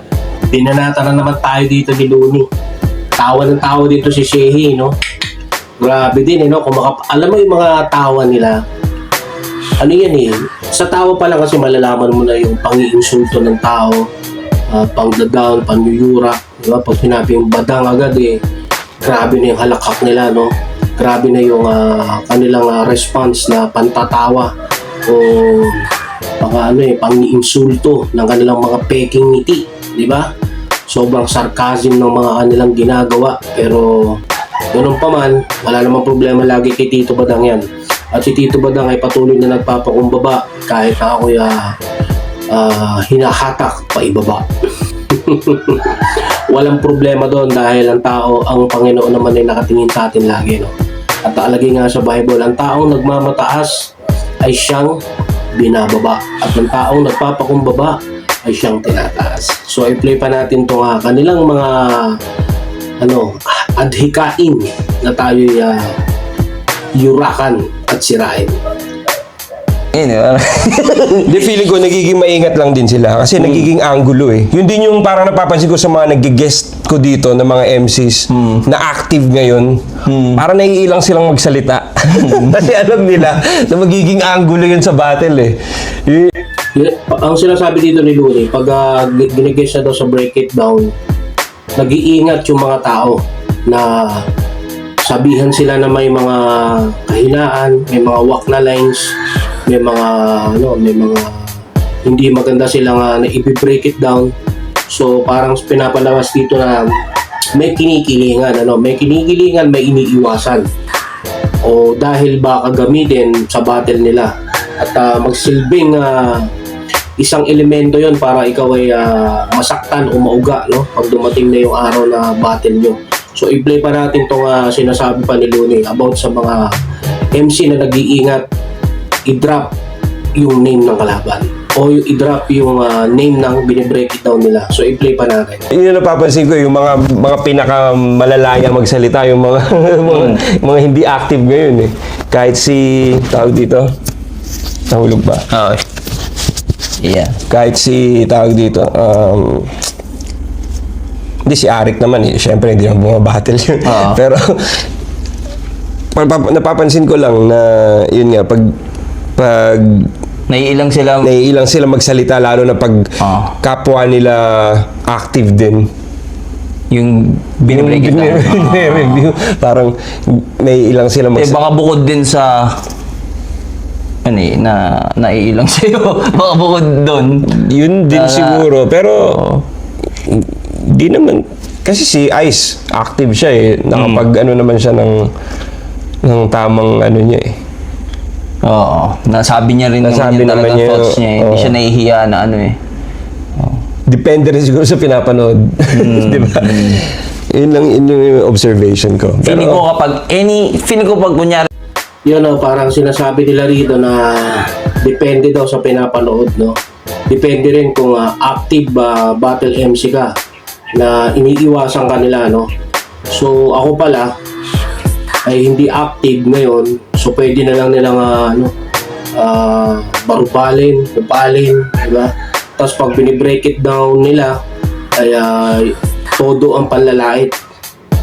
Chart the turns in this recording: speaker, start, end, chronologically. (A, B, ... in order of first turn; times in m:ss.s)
0:00.5-0:02.5 A
0:03.2-0:05.0 A
0:05.8-0:08.6 A
0:09.8-0:14.0 A
0:14.7-0:18.4 A
0:19.0-0:24.5 A
0:25.0-0:25.8 A
0:26.4-0:30.3 A
0:30.9-0:34.2 A
0:34.7-0:41.7 A
0:42.5-0:44.5 A
0:45.1-0:50.7 A
0:51.2-0:53.9 A
0:54.4-0:55.0 A
0:55.5-1:02.2 A
1:03.0-1:05.9 A
1:06.9-1:08.6 A
1:09.9-1:11.4 B
1:11.2-1:19.8 C
1:13.4-1:13.7 B
1:18.3-1:18.6 B
1:20.1-1:20.4 B
1:20.4-1:26.3 C
1:22.2-1:22.7 B
1:26.8-1:30.9 A
1:31.8-1:34.2 A
1:35.0-1:39.1 A
1:39.7-1:44.3 A
1:44.9-1:46.9 A
1:47.5-1:50.7 A
1:51.6-1:56.5 A
1:57.2-2:06.8 A
2:07.3-2:08.4 A
2:09.2-2:09.7 A
2:10.4-2:15.7 A
2:15.7-2:23.9 C
2:20.1-2:20.4 B
2:24.9-2:25.5 C
2:25.5-2:25.8 B
2:27.0-2:27.4 B
2:27.5-2:29.8 C
2:31.5-2:34.8 C
2:33.8-2:34.2 B
2:36.1-2:38.8 C
2:39.4-2:40.1 C
2:40.5-2:41.3 B
2:41.2-2:45.9 C
2:43.2-2:43.6 B
2:46.9-2:49.3 B
2:47.6-2:51.6 C
2:51.3-2:52.8 B
2:54.2-2:58.7 B
2:57.5-2:59.5 C
2:59.3-2:59.6 B
3:00.2-3:05.3 C
3:03.9-3:04.2 B
3:06.2-3:07.6 C
3:08.6-3:12.8 B
3:10.0-3:11.8 C
3:13.6-3:13.8 B
3:14.1-3:19.8 C
3:15.9-3:17.0 B
3:19.4-3:21.7 B
3:22.2-3:26.8 A
3:27.3-3:30.3 A
3:31.0-3:32.7 A
3:33.3-3:34.3 A
3:35.4-3:38.7 A
3:39.3-3:44.6 A
3:45.2-3:47.6 A